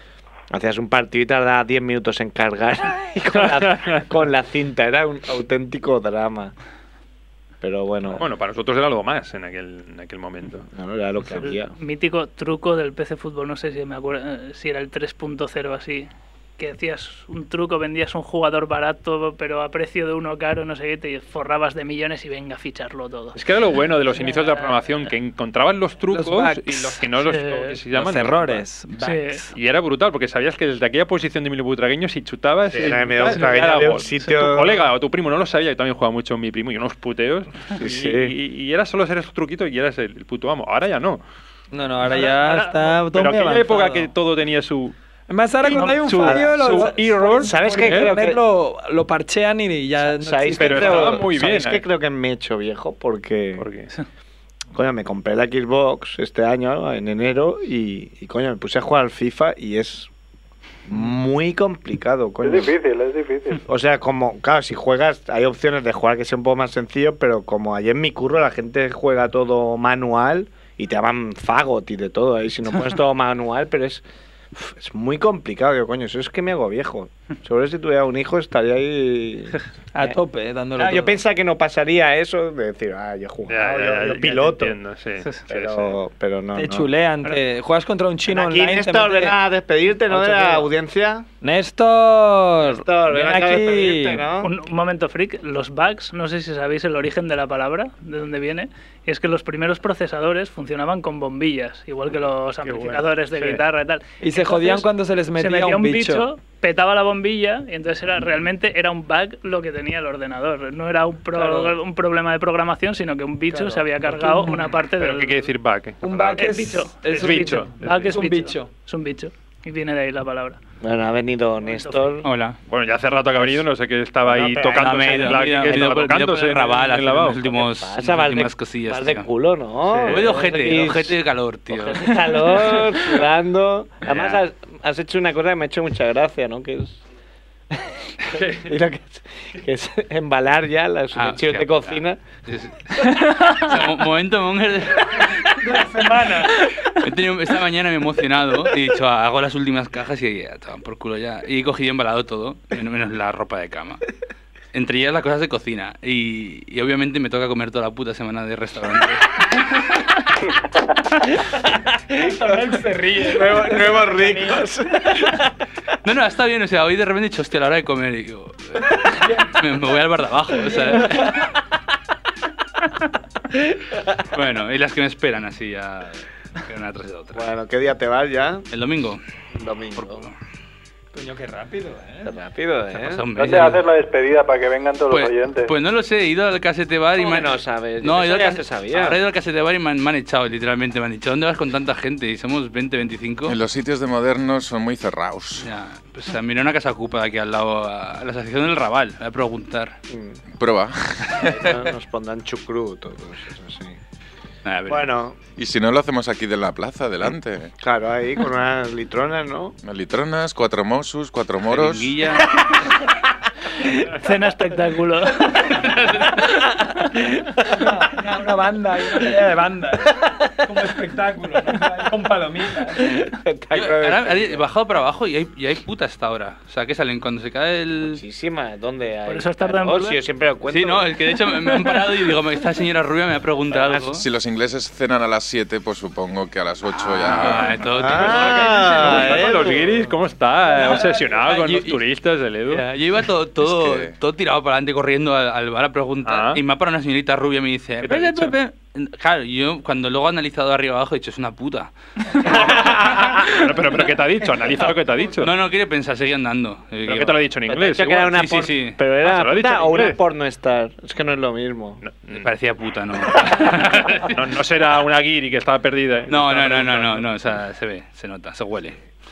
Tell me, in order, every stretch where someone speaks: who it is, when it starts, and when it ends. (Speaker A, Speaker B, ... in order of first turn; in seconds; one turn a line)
Speaker A: 0.5-6.5
Speaker B: 3.4-4.0
Speaker A: 7.6-8.3
Speaker B: 8.1-10.7
Speaker A: 10.7-11.7
Speaker C: 11.3-23.4
Speaker B: 23.4-28.7
Speaker C: 24.1-25.1
Speaker D: 26.1-27.0
Speaker C: 27.2-27.8
Speaker D: 27.9-29.5
Speaker C: 29.0-29.4
Speaker B: 29.5-41.2
Speaker A: 32.7-34.8
Speaker A: 37.8-38.4
Speaker D: 41.7-44.1
Speaker C: 42.1-43.0
Speaker B: 43.1-45.0
Speaker D: 45.3-51.3
Speaker C: 45.7-46.4
Speaker B: 45.7-48.2
Speaker A: 46.2-46.7
Speaker A: 47.4-48.4
Speaker A: 50.0-53.6
Speaker B: 50.5-51.9
Speaker B: 53.6-53.9
Speaker A: 54.7-60.1
Speaker A: 60.9-62.7
Speaker E: 62.4-63.6
Speaker A: 63.6-74.0
Speaker A: 74.5-80.2
Speaker D: 79.9-81.2
Speaker A: 80.8-84.8
Speaker B: 83.5-86.0
Speaker A: 85.5-86.9
Speaker D: 86.5-89.4
Speaker A: 88.3-91.3
Speaker D: 90.2-90.6
Speaker D: 91.4-94.3
Speaker A: 92.6-94.5
Speaker C: 94.4-115.5
Speaker B: 102.6-103.6
Speaker D: 104.2-106.3
Speaker D: 111.3-111.8
Speaker D: 113.5-114.7
Speaker B: 114.9-116.5
Speaker D: 116.0-118.7
Speaker C: 116.2-120.6
Speaker B: 117.1-118.2
Speaker A: 120.8-122.3
Speaker C: 121.6-122.2
Speaker F: 122.2-122.6
Speaker B: 122.7-127.5
Speaker A: 124.2-125.8
Speaker F: 124.6-129.3
Speaker A: 127.5-131.2
Speaker B: 129.9-130.3
Speaker F: 130.0-132.6
Speaker A: 131.7-137.0
Speaker F: 134.0-134.4
Speaker A: 137.7-142.2
Speaker B: 138.3-138.7
Speaker F: 141.1-145.5
Speaker D: 145.5-146.7
Speaker F: 147.0-154.0
Speaker F: 154.7-159.4
Speaker D: 162.0-165.2
Speaker A: 162.7-165.5
Speaker F: 166.0-171.3
Speaker D: 169.2-169.5
Speaker D: 170.7-171.5
Speaker F: 174.3-177.4
Speaker A: 177.3-178.7
Speaker F: 178.7-179.2
Speaker A: 179.5-180.3
Speaker F: 180.0-180.3
Speaker D: 181.1-182.3
Speaker A: 182.2-183.3
Speaker F: 182.9-183.8
Speaker E: 183.4-185.7
Speaker F: 185.1-193.6
Speaker A: 187.2-189.2
Speaker G: 193.5-195.7
Speaker F: 195.6-200.0
Speaker A: 200.1-200.4
Speaker G: 200.6-201.5
Speaker A: 201.4-204.0
Speaker F: 204.7-205.1
Speaker A: 204.9-205.4
Speaker G: 205.6-207.7
Speaker A: 207.8-209.8
Speaker G: 209.8-212.2
Speaker F: 211.7-212.5
Speaker C: 214.1-215.8
Speaker F: 215.7-216.4
Speaker D: 216.5-223.3
Speaker A: 223.2-224.7
Speaker F: 223.7-228.2
Speaker A: 228.0-231.2
Speaker C: 229.3-230.2
Speaker F: 230.7-234.2
Speaker C: 231.6-232.3
Speaker A: 233.7-234.1
Speaker G: 233.9-237.9
Speaker F: 237.1-239.8
Speaker A: 237.9-240.0
Speaker B: 238.4-242.9
Speaker D: 240.7-242.0
Speaker F: 242.7-254.0
Speaker G: 243.6-244.2
Speaker B: 246.2-246.6
Speaker B: 248.0-248.6
Speaker A: 252.4-253.5
Speaker B: 252.5-255.5
Speaker F: 255.3-257.5
Speaker B: 257.1-258.4
Speaker A: 257.7-262.0
Speaker F: 258.2-259.0
Speaker B: 259.1-260.2
Speaker B: 262.0-262.5
Speaker F: 262.3-264.4
Speaker B: 263.3-267.3
Speaker F: 266.3-269.0